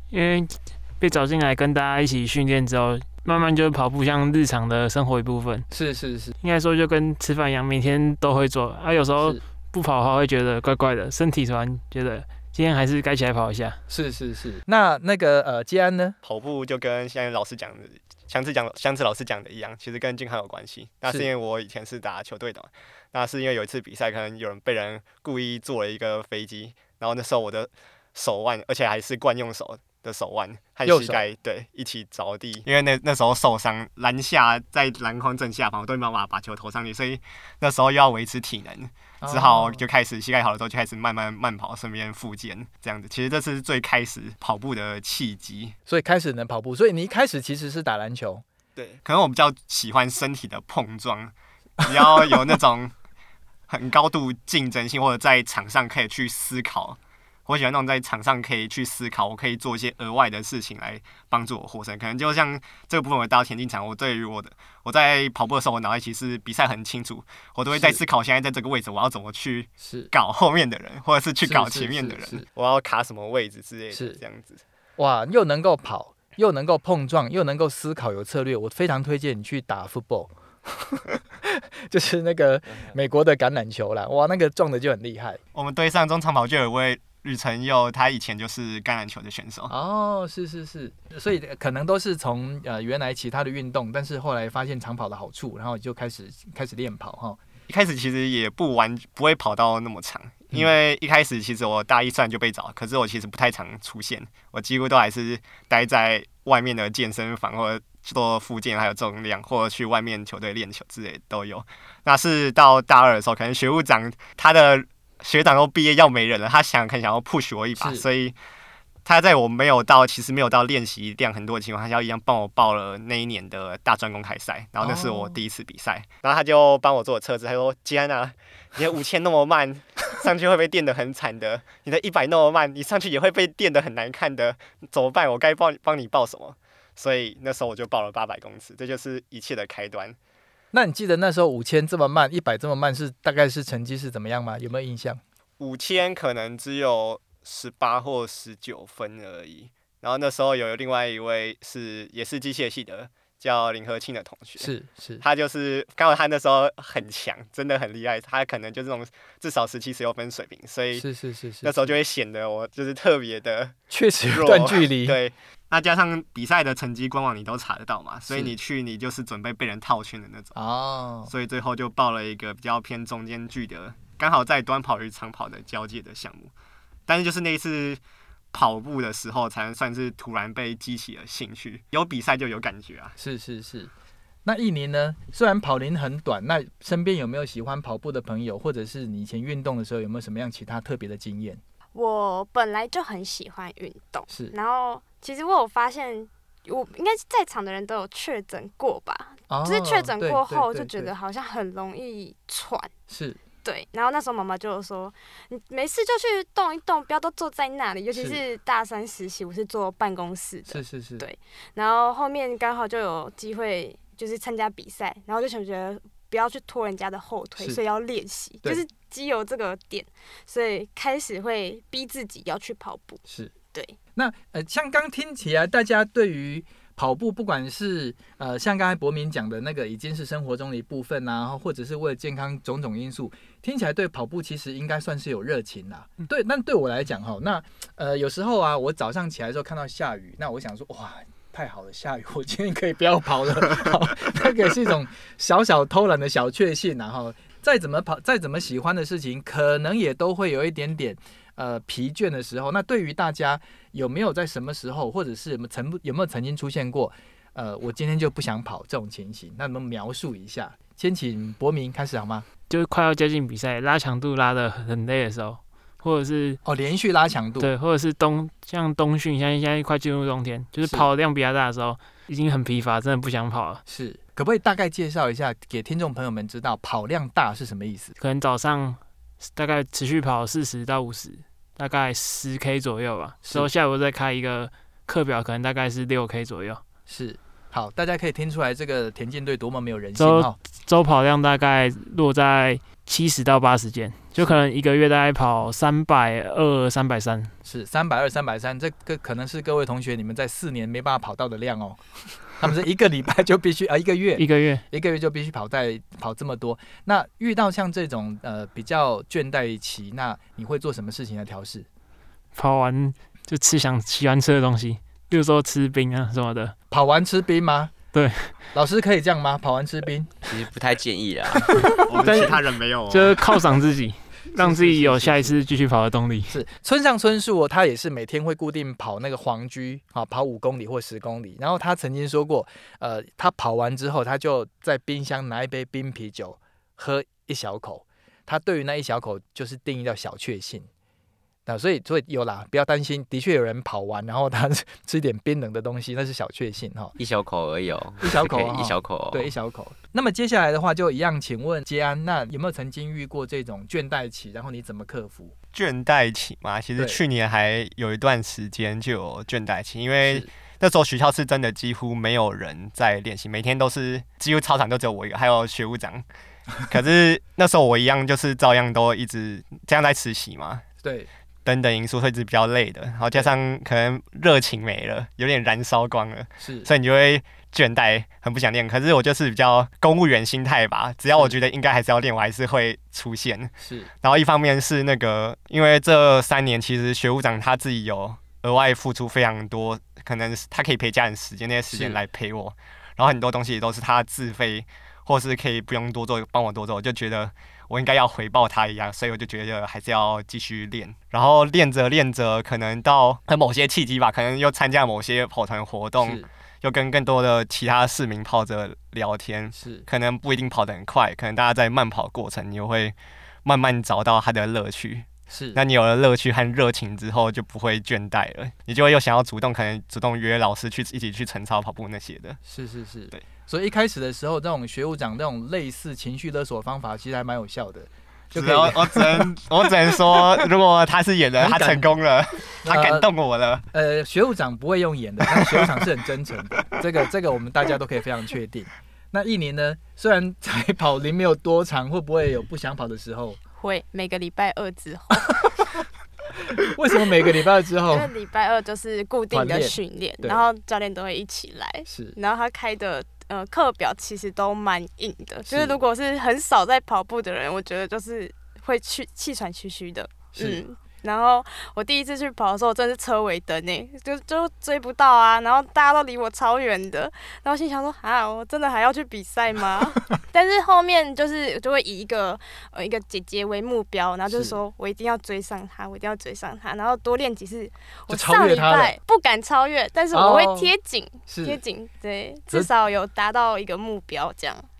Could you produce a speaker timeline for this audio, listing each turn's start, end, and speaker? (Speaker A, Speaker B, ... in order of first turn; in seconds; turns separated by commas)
Speaker A: 0.1-5.7, Speaker B: 5.7-6.3, Speaker A: 6.4-13.8, Speaker B: 13.9-16.2, Speaker C: 16.2-45.7, Speaker B: 30.9-31.2, Speaker B: 39.2-39.8, Speaker B: 45.9-48.4, Speaker C: 48.8-52.9, Speaker B: 51.8-52.6, Speaker C: 53.7-74.6, Speaker B: 67.7-68.0, Speaker B: 69.8-70.1, Speaker B: 71.4-72.5, Speaker B: 73.9-74.2, Speaker B: 75.0-85.4, Speaker C: 85.5-89.7, Speaker B: 89.7-97.4, Speaker C: 97.7-118.3, Speaker B: 117.8-118.0, Speaker C: 119.0-140.2, Speaker B: 124.8-125.4, Speaker B: 140.7-145.2, Speaker C: 145.6-154.7, Speaker B: 154.6-155.2, Speaker C: 155.2-161.1, Speaker B: 160.9-161.7, Speaker C: 161.6-163.7, Speaker B: 163.9-165.2, Speaker C: 164.3-170.6, Speaker B: 170.5-171.3, Speaker C: 171.3-176.5, Speaker C: 177.1-178.0, Speaker C: 178.5-183.2, Speaker B: 183.2-183.9, Speaker B: 184.4-191.6, Speaker D: 191.9-202.9, Speaker B: 194.3-194.5, Speaker B: 199.5-201.1, Speaker B: 203.1-203.4, Speaker D: 203.6-223.2, Speaker B: 208.1-208.4, Speaker B: 210.7-211.2, Speaker B: 223.3-223.5, Speaker B: 224.2-262.5, Speaker A: 262.7-266.6, Speaker B: 266.6-267.7, Speaker A: 267.6-273.8, Speaker B: 273.9-278.1, Speaker A: 278.2-279.0, Speaker A: 279.6-286.8, Speaker B: 287.1-290.6, Speaker A: 290.2-297.5, Speaker B: 297.6-311.9, Speaker A: 304.4-304.8, Speaker A: 312.5-316.7, Speaker B: 316.9-318.0, Speaker A: 318.1-318.5, Speaker B: 318.7-320.3, Speaker E: 320.4-321.8, Speaker A: 321.7-326.6, Speaker C: 322.0-323.4, Speaker B: 324.6-325.6, Speaker B: 326.5-340.9, Speaker B: 341.6-347.1, Speaker E: 347.2-349.5, Speaker B: 348.2-355.5, Speaker C: 355.7-366.2, Speaker B: 360.2-360.5, Speaker C: 366.8-370.8, Speaker B: 371.0-371.3, Speaker C: 371.6-413.1, Speaker B: 376.6-376.9, Speaker B: 383.8-384.1, Speaker B: 391.9-392.2, Speaker B: 406.2-406.5, Speaker B: 409.7-410.1, Speaker C: 413.6-422.6, Speaker B: 415.5-415.8, Speaker B: 422.6-429.5, Speaker C: 428.5-433.9, Speaker B: 430.1-430.4, Speaker B: 431.6-432.1, Speaker B: 432.8-433.3, Speaker B: 433.9-443.6, Speaker C: 435.5-435.9, Speaker D: 443.8-445.8, Speaker B: 446.7-448.3, Speaker D: 448.1-484.9, Speaker B: 449.5-450.6, Speaker B: 452.1-452.4, Speaker B: 455.7-456.0, Speaker B: 460.6-460.8, Speaker B: 474.5-474.8, Speaker B: 478.3-479.1, Speaker B: 480.3-480.9, Speaker B: 481.5-481.8